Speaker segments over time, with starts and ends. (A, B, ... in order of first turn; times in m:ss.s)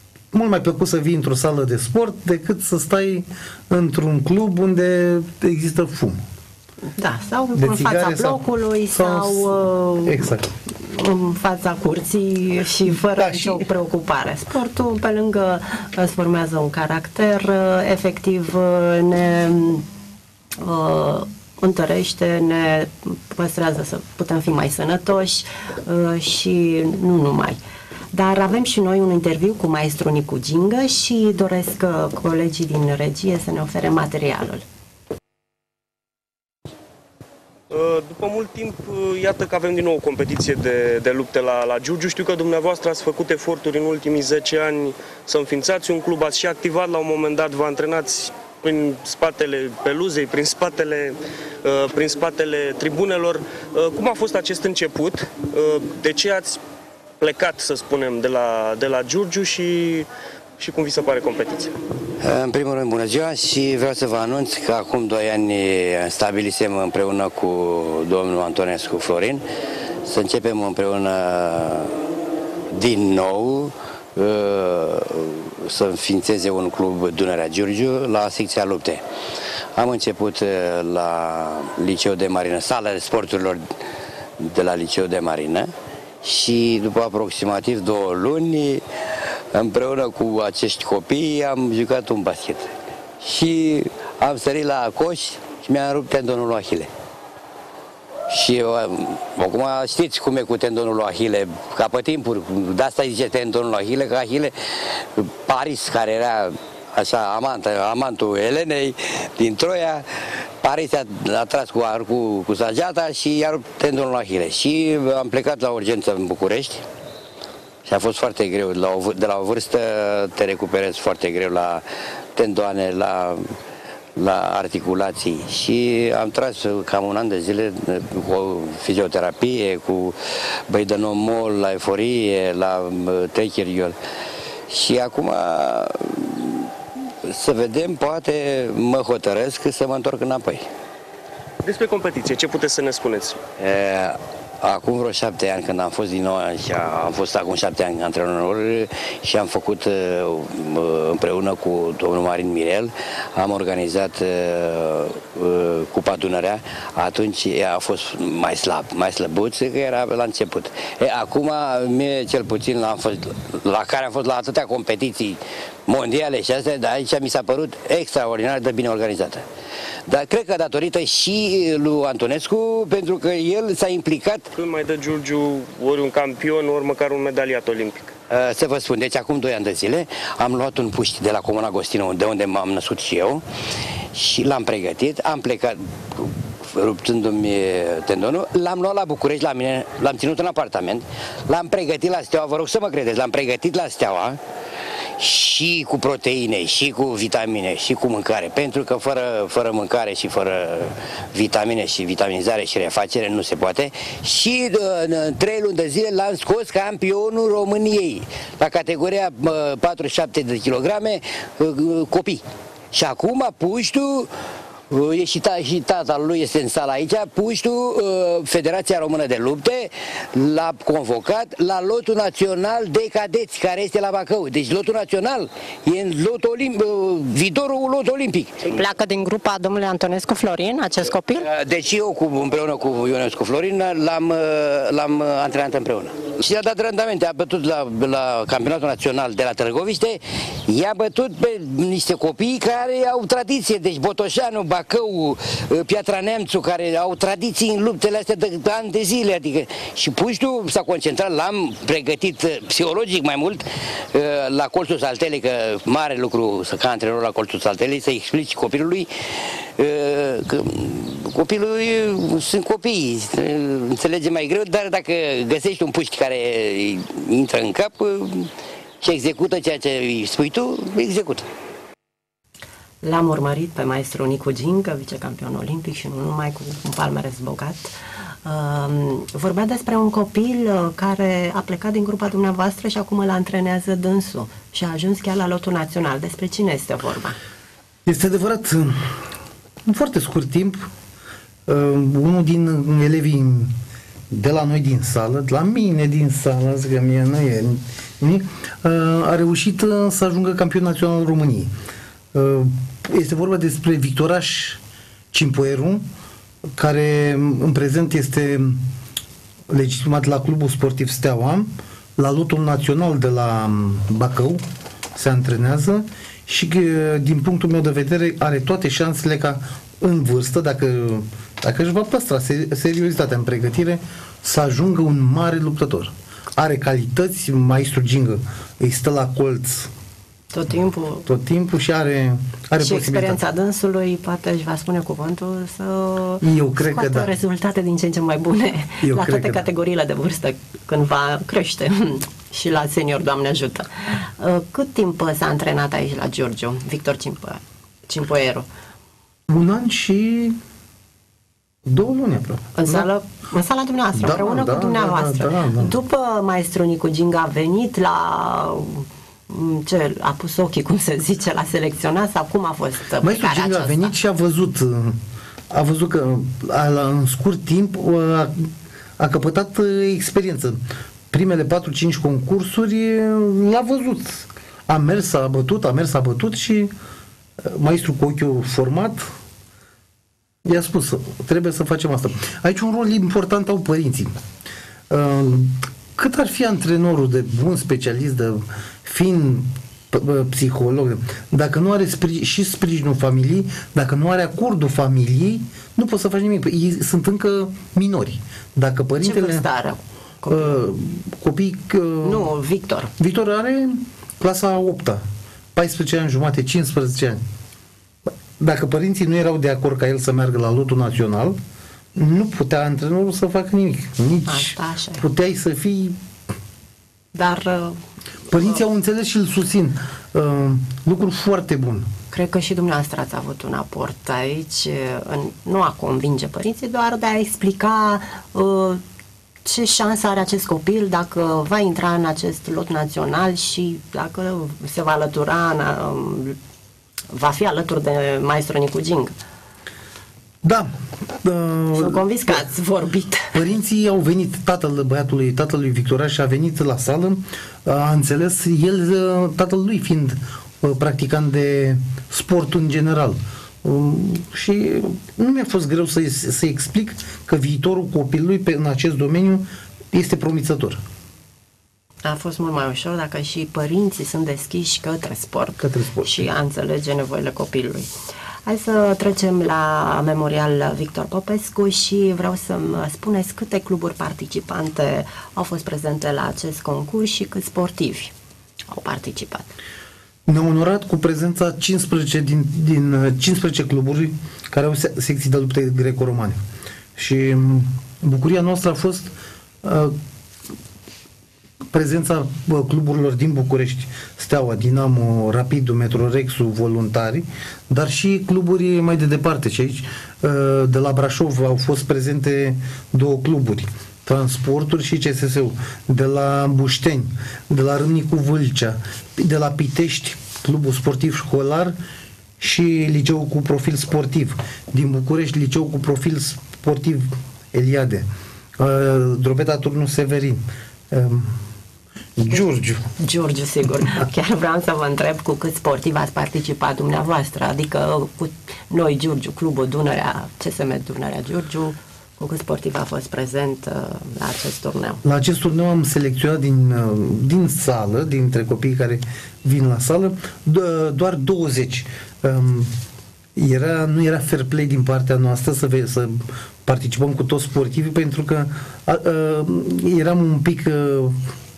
0:00.3-0:06.2 A
0:07.0-0:19.8 B
0:07.5-0:10.5 A
0:12.8-0:13.7 A
0:20.6-0:27.6 B
0:28.1-0:34.6 B
0:37.7-0:56.6 C
0:57.2-1:01.8 C
1:02.2-1:09.4 D
1:10.0-1:12.0 D
1:12.7-1:19.0 D
1:19.8-1:23.7 D
1:24.4-1:25.7 D
1:26.2-1:28.8 D
1:29.5-1:36.9 D
1:38.3-1:56.8 D
1:57.8-2:03.5 D
2:04.2-2:10.2 D
2:10.7-2:14.0 D
2:14.7-2:16.7 D
2:17.2-2:20.6 D
2:21.6-2:23.4 C
2:23.6-2:49.4 D
2:50.1-2:54.5 D
2:54.6-2:58.1 C
2:58.3-3:03.4 D
3:04.1-3:14.4 D
3:15.2-3:34.3 D
3:34.9-3:48.7 D
3:48.6-3:51.5 B
3:51.4-4:31.4 D
4:33.0-4:37.9 B
4:38.4-4:47.4 B
4:48.0-4:49.2 A
4:49.8-4:50.9 A
4:51.7-4:53.7 A
4:54.3-5:01.7 A
5:02.3-5:04.8 A
5:05.3-5:06.0 A
5:06.8-5:08.8 A
5:09.7-5:14.6 A
5:15.1-5:29.9 A
5:30.5-5:31.3 B
5:31.2-5:33.4 A
5:32.8-5:48.7 B
5:36.4-5:37.3 A
5:39.0-5:39.6 A
5:49.5-5:50.6 A
5:51.8-5:53.1 A
5:52.7-6:04.1 B
5:54.1-5:55.9 A
6:03.2-6:05.2 A
6:05.7-6:10.8 A
6:11.3-6:16.9 A
6:17.6-6:19.3 A
6:20.6-6:24.4 A
6:25.1-6:39.6 A
6:39.2-6:40.8 B
6:40.5-6:42.5 A
6:42.2-6:43.1 B
6:43.2-6:45.2 A
6:45.7-6:47.4 A
6:48.6-6:51.6 A
6:52.1-6:56.2 A
6:54.5-6:55.2 B
6:57.3-6:58.0 B
6:58.5-7:02.1 A
7:02.3-7:09.0 B
7:09.6-7:16.6 B
7:17.3-7:19.3 B
7:20.6-7:22.6 A
7:21.9-7:23.5 B
7:23.5-7:41.0 A
7:42.2-7:48.1 B
7:45.8-7:46.5 A
7:48.6-7:58.3 B
7:58.9-7:59.7 B
8:00.5-8:06.6 A
8:07.2-8:09.3 A
8:09.8-8:10.2 A
8:11.9-8:32.0 A
8:32.6-8:38.3 A
8:38.8-8:41.6 A
8:42.4-8:43.1 A
8:43.2-8:55.2 B
8:55.2-9:02.9 A
9:03.6-9:11.4 A